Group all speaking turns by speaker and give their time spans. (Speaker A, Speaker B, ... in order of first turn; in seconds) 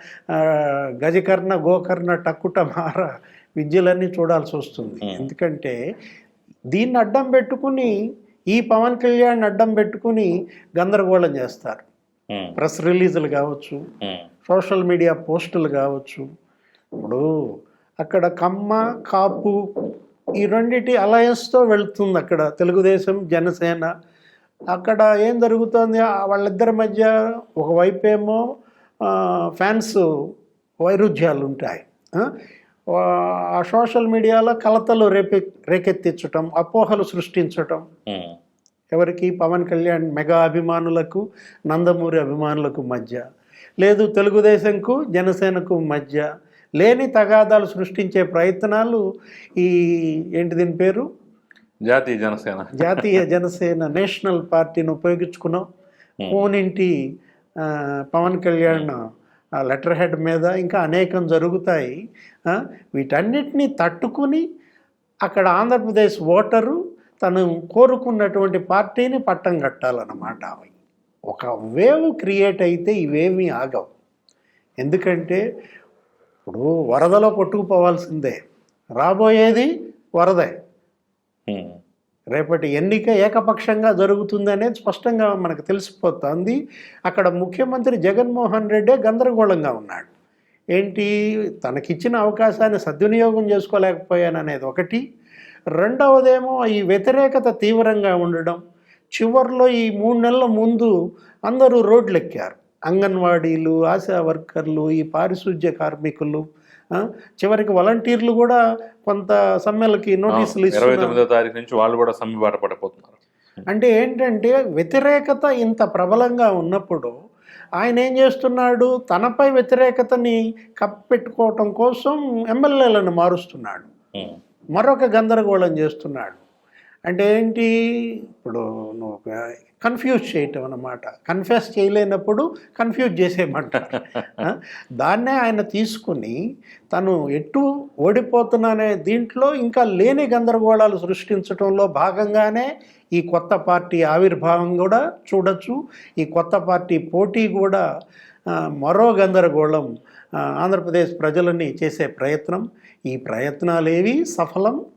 Speaker A: 0.3-3.1, 3.6-5.8, 6.7-7.9, 8.5-11.8, 12.6-13.8, 14.5-16.2, 17.0-17.3, 18.0-19.6, 20.4-23.9, 24.7-28.4, 29.1-30.0, 30.9-32.3, 32.9-37.8, 38.9-43.2, 43.8-46.2, 46.8-49.0, 49.6-51.1, 52.8-55.6, 56.3-56.9, 57.7-59.0, 59.6-62.0, 62.5-64.4, 65.3-70.7, 71.3-73.9, 74.8-75.4, 76.5-78.4, 79.0-80.5, 82.3-86.6, 87.1-90.1, 90.8-91.1, 91.6-95.0, 95.8-98.6, 99.2-100.9, 101.5-111.2, 113.7-117.1, 117.8-123.9, 124.8-126.4, 127.1-127.7, 128.3-129.3, 129.8-136.3, 136.9-147.8, 148.8-149.9, 150.5-154.8
Speaker B: 5.0-5.3, 38.1-38.4, 51.9-53.2, 81.5-81.8, 110.3-113.2